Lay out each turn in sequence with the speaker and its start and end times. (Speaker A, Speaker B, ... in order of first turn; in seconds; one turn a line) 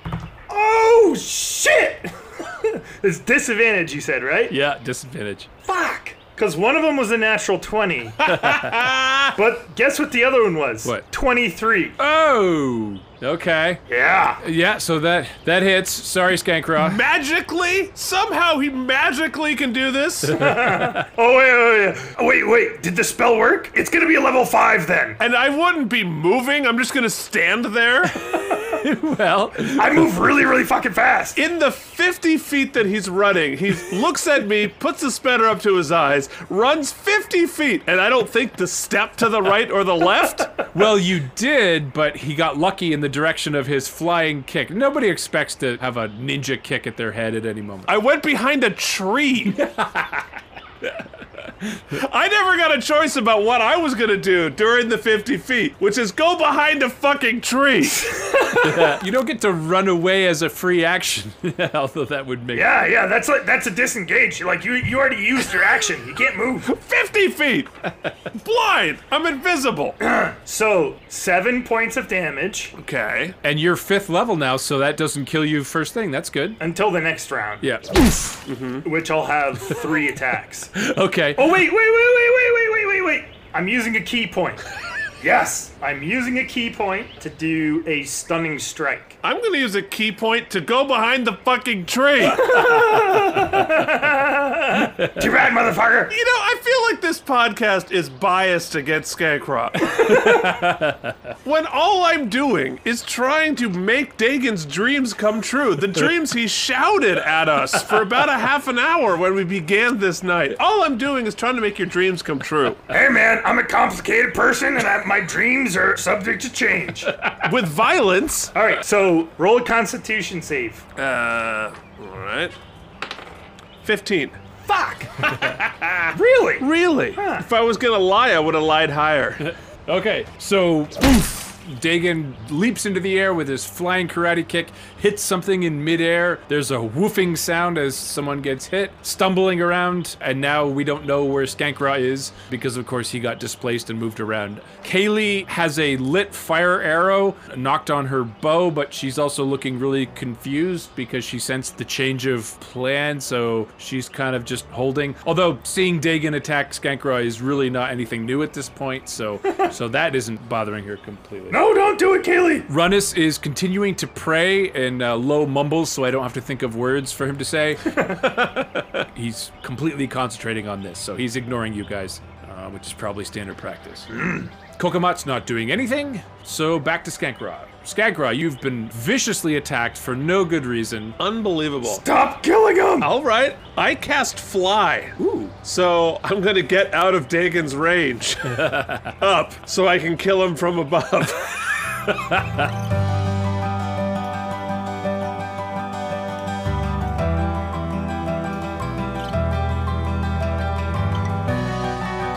Speaker A: 0.5-4.5
Speaker B: 4.5-5.5
Speaker A: 5.7-8.3
Speaker C: 8.2-9.4
Speaker B: 8.3-8.6
Speaker A: 9.3-12.0
Speaker B: 12.0-13.8
Speaker A: 13.9-14.4
Speaker B: 14.4-17.0
Speaker C: 16.8-20.4
Speaker B: 20.3-21.1
Speaker A: 20.3-25.2
Speaker C: 25.2-28.2
Speaker B: 28.5-30.1
Speaker A: 29.6-31.4
Speaker C: 31.3-40.7
Speaker B: 40.7-48.0
Speaker C: 47.9-49.6
Speaker B: 49.5-50.2
Speaker C: 51.9-58.1
Speaker A: 58.1-58.8
Speaker B: 58.6-62.7
Speaker A: 62.5-66.7
Speaker C: 66.6-67.7
Speaker C: 68.3-70.0
Speaker A: 70.0-72.7
Speaker C: 72.8-73.4
Speaker B: 73.4-76.6
Speaker A: 76.6-77.7
Speaker B: 77.6-78.4
Speaker C: 78.4-78.8
Speaker A: 78.8-80.7
Speaker B: 80.7-81.6
Speaker A: 81.4-84.6
Speaker A: 85.2-89.2
Speaker C: 89.2-92.8
Speaker A: 92.3-96.1
Speaker C: 96.1-100.0
Speaker A: 99.9-100.6
Speaker B: 100.1-101.0
Speaker C: 101.4-112.8
Speaker A: 112.9-117.2
Speaker C: 117.4-118.5
Speaker A: 118.5-120.8
Speaker C: 121.0-122.5
Speaker C: 123.8-124.4
Speaker A: 124.7-125.4
Speaker A: 126.1-127.4
Speaker C: 126.6-129.5
Speaker B: 129.4-161.6
Speaker A: 161.5-162.7
Speaker B: 162.7-174.1
Speaker A: 168.0-168.4
Speaker A: 174.1-174.5
Speaker B: 174.8-181.2
Speaker C: 181.2-182.0
Speaker A: 181.8-183.1
Speaker C: 183.0-191.9
Speaker B: 185.2-185.5
Speaker B: 188.6-189.1
Speaker B: 192.2-192.5